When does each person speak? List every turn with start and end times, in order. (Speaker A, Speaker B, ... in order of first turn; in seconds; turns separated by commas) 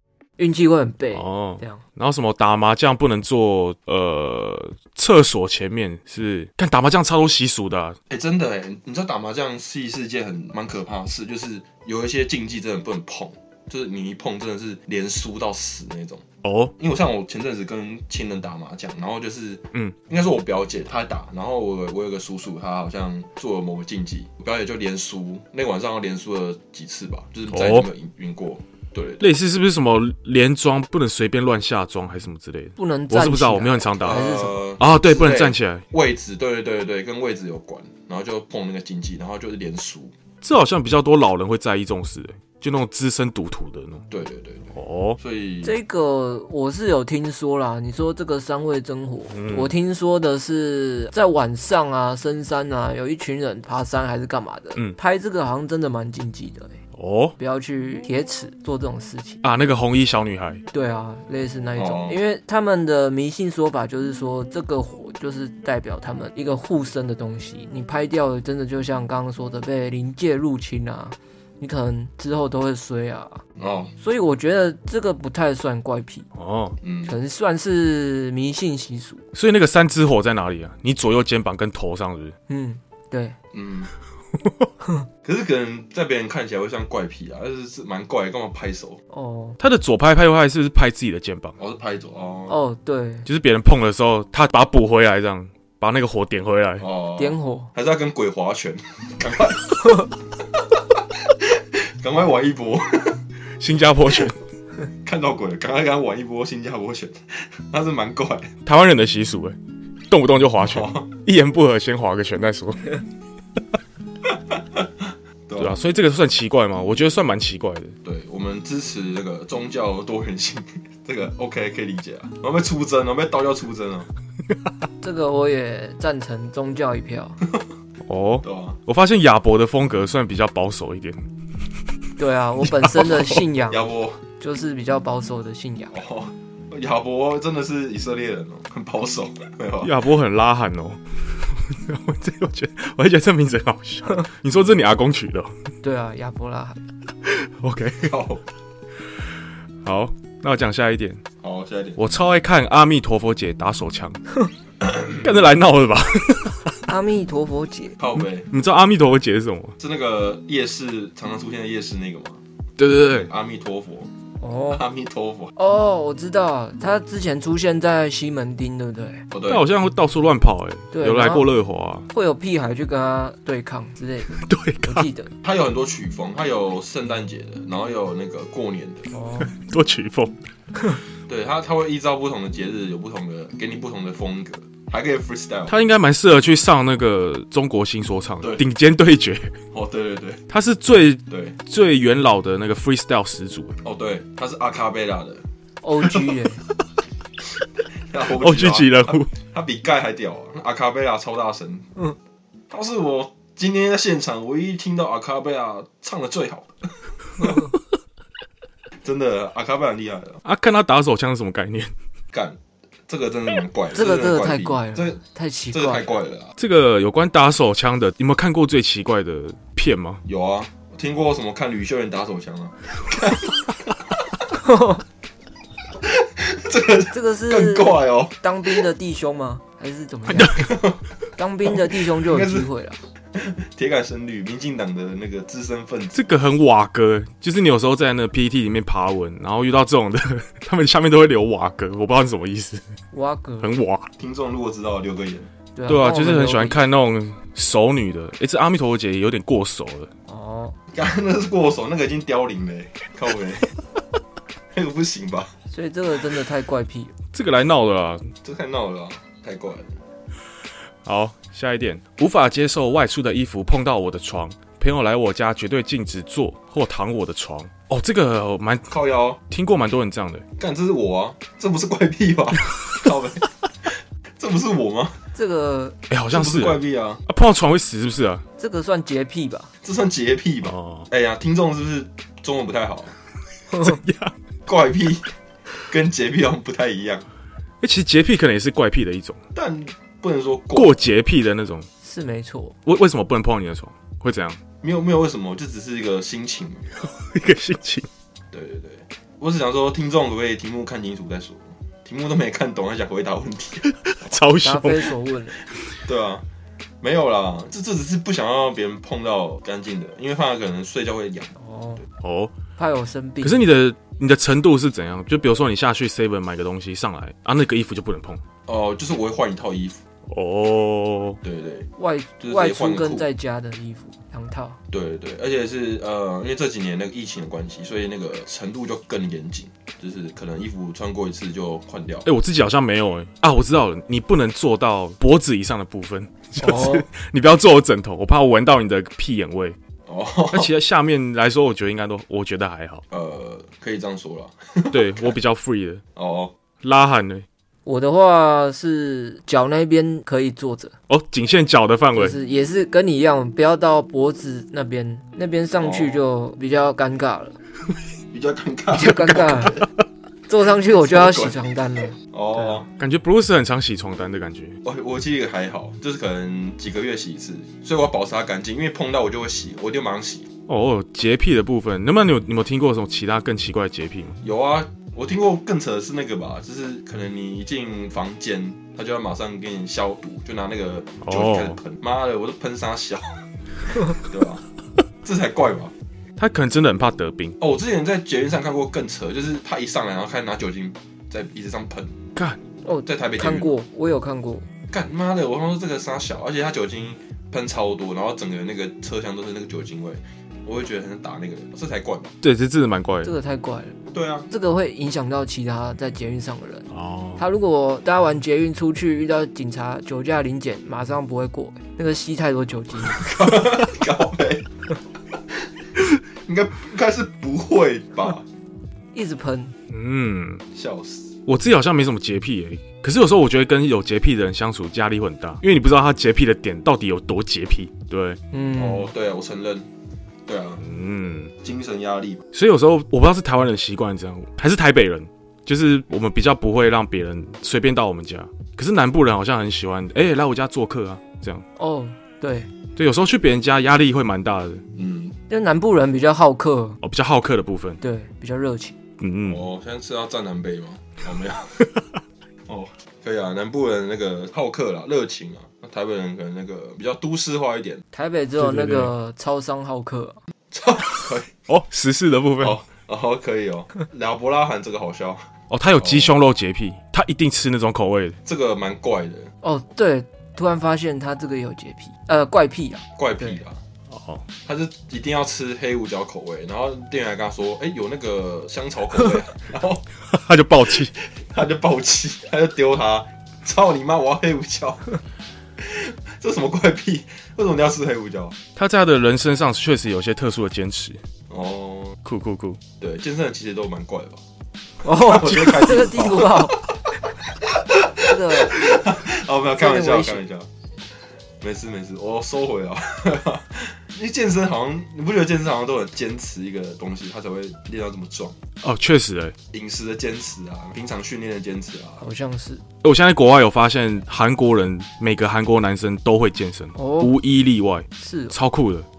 Speaker A: 0.4-1.8, Speaker B: 1.1-8.0, Speaker C: 8.1-16.2, Speaker B: 16.4-16.7, Speaker C: 16.8-29.3, Speaker B: 27.5-27.9, Speaker B: 29.2-35.8, Speaker A: 32.8-34.6, Speaker C: 34.0-40.1, Speaker B: 40.4-44.0, Speaker C: 44.1-45.8, Speaker B: 44.7-45.2, Speaker A: 45.6-56.8, Speaker B: 49.3-49.7, Speaker B: 56.9-57.4, Speaker A: 57.4-59.4, Speaker B: 59.4-60.6, Speaker A: 60.7-73.4, Speaker C: 61.8-62.2, Speaker C: 73.6-73.9, Speaker A: 74.0-76.3, Speaker B: 76.3-76.8, Speaker C: 76.8-77.2, Speaker A: 77.0-79.2, Speaker B: 79.3-82.3, Speaker A: 82.5-83.4, Speaker C: 83.5-83.9, Speaker C: 85.2-89.0, Speaker A: 89.1-89.6, Speaker B: 89.6-91.6, Speaker C: 91.6-92.6, Speaker A: 92.5-93.3, Speaker B: 93.2-96.9, Speaker C: 96.8-100.1, Speaker A: 97.2-97.7, Speaker C: 100.7-103.2, Speaker B: 103.6-104.4, Speaker C: 105.0-108.5, Speaker B: 108.6-109.6, Speaker B: 110.1-113.0, Speaker C: 110.6-111.1, Speaker C: 114.3-115.8, Speaker B: 115.6-117.9, Speaker C: 118.0-124.1, Speaker A: 125.0-127.4, Speaker B: 128.0-131.2, Speaker C: 128.4-128.8, Speaker A: 132.2-133.9, Speaker B: 132.6-133.4, Speaker C: 133.7-134.2, Speaker A: 134.4-135.9, Speaker C: 135.9-139.9, Speaker B: 139.8-145.5, Speaker A: 145.8-146.8, Speaker B: 147.2-148.1, Speaker C: 148.0-148.4, Speaker B: 149.8-151.2, Speaker C: 151.4-152.0, Speaker B: 152.0-154.2, Speaker C: 154.8-155.3, Speaker B: 155.1-156.9, Speaker A: 156.9-158.0, Speaker C: 158.0-158.5, Speaker B: 158.5-159.8, Speaker C: 159.8-162.4, Speaker B: 162.8-163.3, Speaker C: 163.2-164.1, Speaker A: 164.4-164.8, Speaker C: 164.7-165.5, Speaker A: 165.6-169.2, Speaker C: 169.3-169.7, Speaker B: 169.5-172.1, Speaker A: 170.9-171.5, Speaker A: 172.1-175.3, Speaker B: 174.3-175.1, Speaker C: 175.4-179.1, Speaker A: 179.1-179.5, Speaker B: 179.5-180.3, Speaker C: 181.3-185.8, Speaker B: 185.7-189.5, Speaker C: 189.7-190.4, Speaker B: 190.5-193.8, Speaker C: 191.3-191.6, Speaker C: 193.8-195.4, Speaker A: 195.8-196.6, Speaker C: 198.1-201.9, Speaker B: 198.4-199.3, Speaker C: 202.7-207.7, Speaker C: 209.0-210.4, Speaker B: 210.4-211.9, Speaker C: 212.3-215.2, Speaker A: 213.9-216.1, Speaker C: 215.7-216.5, Speaker B: 216.6-220.2, Speaker C: 220.2-223.7, Speaker A: 224.6-225.0, Speaker C: 226.0-228.4, Speaker A: 227.1-230.7, Speaker B: 230.3-230.7, Speaker C: 230.5-231.0, Speaker A: 231.4-233.0, Speaker C: 231.6-232.7, Speaker C: 233.3-236.2, Speaker B: 236.1-242.8, Speaker A: 243.1-243.7, Speaker B: 243.6-244.1, Speaker C: 244.2-245.5, Speaker A: 245.8-246.8, Speaker B: 245.9-250.1, Speaker A: 250.3-250.8, Speaker C: 250.9-253.7, Speaker C: 254.7-255.5, Speaker A: 255.7-257.1, Speaker B: 257.3-258.3, Speaker C: 258.4-259.9, Speaker B: 261.0-268.9, Speaker C: 268.9-269.4, Speaker B: 269.5-270.4, Speaker C: 270.6-275.2, Speaker A: 275.3-276.0, Speaker B: 276.1-278.4, Speaker C: 276.3-277.2, Speaker A: 278.6-279.7, Speaker C: 279.8-283.1, Speaker B: 280.6-281.1, Speaker B: 283.8-284.3, Speaker C: 284.6-285.3, Speaker C: 285.9-287.2, Speaker B: 287.8-289.4, Speaker C: 289.5-291.0, Speaker B: 290.7-291.9, Speaker A: 292.0-292.8, Speaker B: 292.9-294.6, Speaker C: 294.8-296.9, Speaker B: 297.0-298.1, Speaker C: 298.5-303.9, Speaker B: 303.9-305.1, Speaker A: 304.6-305.6, Speaker C: 306.0-306.4, Speaker C: 307.0-311.5, Speaker A: 311.6-312.0, Speaker B: 312.2-312.5, Speaker A: 312.8-313.6, Speaker B: 313.4-318.4, Speaker C: 318.7-320.0, Speaker B: 320.3-321.4, Speaker C: 321.4-321.9, Speaker A: 322.0-324.8, Speaker C: 322.4-323.3, Speaker C: 324.9-332.3, Speaker B: 332.2-339.8, Speaker A: 336.6-337.1, Speaker C: 340.1-340.7, Speaker B: 340.5-343.0, Speaker C: 343.1-345.4, Speaker B: 344.9-346.0, Speaker C: 346.1-346.5, Speaker B: 346.8-347.4, Speaker A: 347.9-350.9, Speaker B: 351.1-352.4, Speaker A: 352.1-357.6, Speaker C: 355.8-356.2, Speaker C: 358.3-359.9, Speaker A: 358.9-359.8, Speaker A: 360.5-362.8, Speaker C: 360.9-361.6, Speaker C: 362.2-362.9, Speaker B: 363.0-364.8, Speaker C: 364.8-370.5, Speaker B: 370.7-374.4, Speaker C: 374.4-383.5, Speaker B: 381.2-381.8, Speaker C: 384.0-384.6, Speaker C: 385.2-385.9, Speaker B: 386.4-387.6, Speaker C: 387.6-392.2, Speaker A: 392.8-394.6, Speaker C: 393.1-393.7, Speaker C: 394.9-402.3, Speaker B: 402.4-403.3, Speaker A: 403.2-404.0, Speaker C: 404.1-404.5, Speaker A: 404.5-406.9, Speaker B: 406.9-407.4, Speaker A: 407.4-413.3, Speaker C: 413.1-414.7, Speaker C: 416.4-418.4, Speaker A: 419.1-419.7, Speaker B: 419.9-420.6, Speaker C: 420.7-421.4, Speaker B: 421.5-428.4, Speaker A: 428.5-429.1, Speaker C: 428.8-429.9, Speaker C: 430.5-430.8, Speaker B: 430.8-431.5, Speaker C: 431.6-432.4, Speaker B: 432.5-441.6, Speaker A: 441.8-442.7, Speaker B: 443.0-444.8, Speaker C: 445.0-445.4, Speaker A: 445.5-447.0, Speaker B: 447.0-448.0, Speaker A: 448.0-449.0, Speaker B: 449.2-449.6, Speaker C: 449.5-451.9, Speaker C: 452.7-458.0, Speaker A: 458.1-460.4, Speaker B: 458.6-459.1, Speaker C: 460.7-461.5, Speaker B: 461.7-462.8, Speaker C: 462.6-466.3, Speaker B: 465.7-468.4, Speaker C: 468.4-469.5, Speaker A: 469.6-473.6, Speaker C: 473.2-473.8, Speaker B: 474.1-474.4, Speaker C: 474.6-480.0, Speaker B: 480.3-481.1, Speaker C: 481.0-485.2, Speaker C: 485.8-488.6, Speaker B: 488.8-491.2, Speaker C: 491.5-492.2, Speaker B: 492.2-492.8, Speaker C: 493.0-494.4, Speaker A: 495.0-496.8, Speaker C: 495.0-500.7, Speaker A: 498.2-499.0, Speaker A: 499.8-500.4, Speaker C: 501.6-508.6, Speaker B: 508.8-509.5, Speaker C: 509.7-512.2, Speaker A: 512.2-512.8, Speaker B: 513.0-519.0, Speaker A: 517.0-517.3, Speaker A: 518.2-518.5